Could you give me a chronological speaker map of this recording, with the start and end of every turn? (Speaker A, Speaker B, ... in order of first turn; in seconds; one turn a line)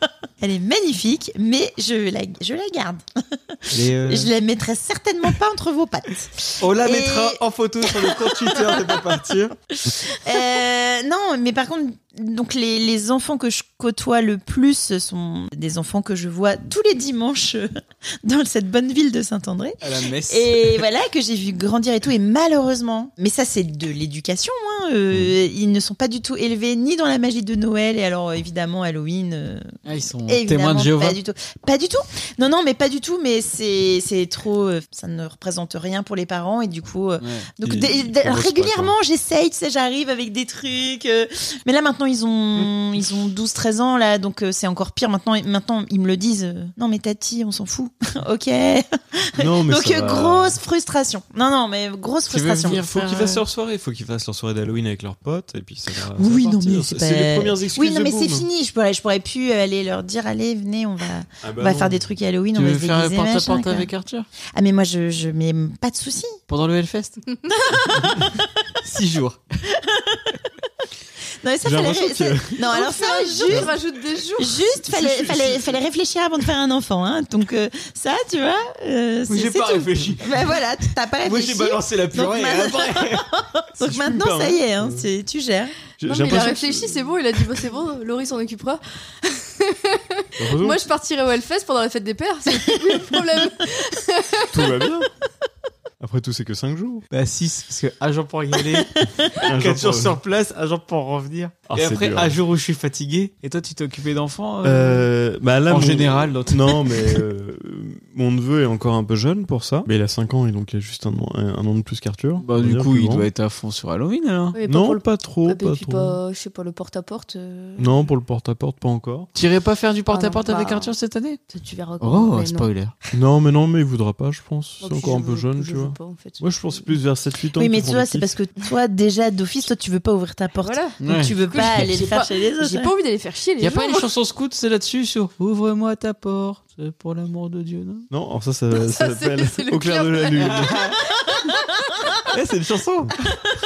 Speaker A: 0.4-9.0
Speaker B: 3.7-4.3
Speaker B: 6.6-9.5
Speaker A: 9.8-17.7
Speaker A: 18.2-29.7
Speaker B: 19.8-20.8
Speaker B: 29.9-31.2
Speaker A: 30.3-52.8
Speaker B: 37.2-37.5
Speaker C: 37.6-38.9
Speaker C: 49.4-50.6
Speaker B: 52.3-53.4
Speaker C: 52.7-58.5
Speaker A: 56.1-63.9
Speaker C: 61.4-62.0
Speaker B: 62.5-64.3
Speaker A: 64.5-66.4
Speaker B: 66.5-67.2
Speaker A: 67.5-68.5
Speaker B: 68.8-69.4
Speaker A: 69.7-70.3
Speaker A: 71.4-73.7
Speaker C: 71.6-72.5
Speaker D: 72.7-74.7
Speaker A: 74.4-85.8
Speaker B: 74.9-75.8
Speaker B: 79.3-83.3
Speaker C: 83.8-85.1
Speaker C: 86.0-87.1
Speaker D: 86.0-94.8
Speaker C: 90.4-90.8
Speaker C: 94.5-95.1
Speaker C: 96.0-97.0
Speaker B: 97.1-105.1
Speaker A: 98.7-99.3
Speaker C: 99.4-100.2
Speaker C: 101.7-102.3
Speaker C: 104.6-113.3
Speaker B: 105.7-107.2
Speaker B: 112.4-114.6
Speaker D: 114.5-118.0
Speaker C: 114.7-116.2
Speaker C: 117.8-119.3
Speaker B: 119.3-121.4
Speaker D: 120.1-120.9
Speaker D: 121.5-122.7
Speaker B: 122.0-122.9
Speaker C: 123.1-128.3
Speaker D: 124.8-126.4
Speaker A: 127.5-132.9
Speaker D: 130.6-134.1
Speaker B: 131.0-131.9
Speaker B: 133.6-138.1
Speaker C: 138.1-140.9
Speaker D: 138.7-142.2
Speaker B: 140.4-141.0
Speaker B: 142.2-143.1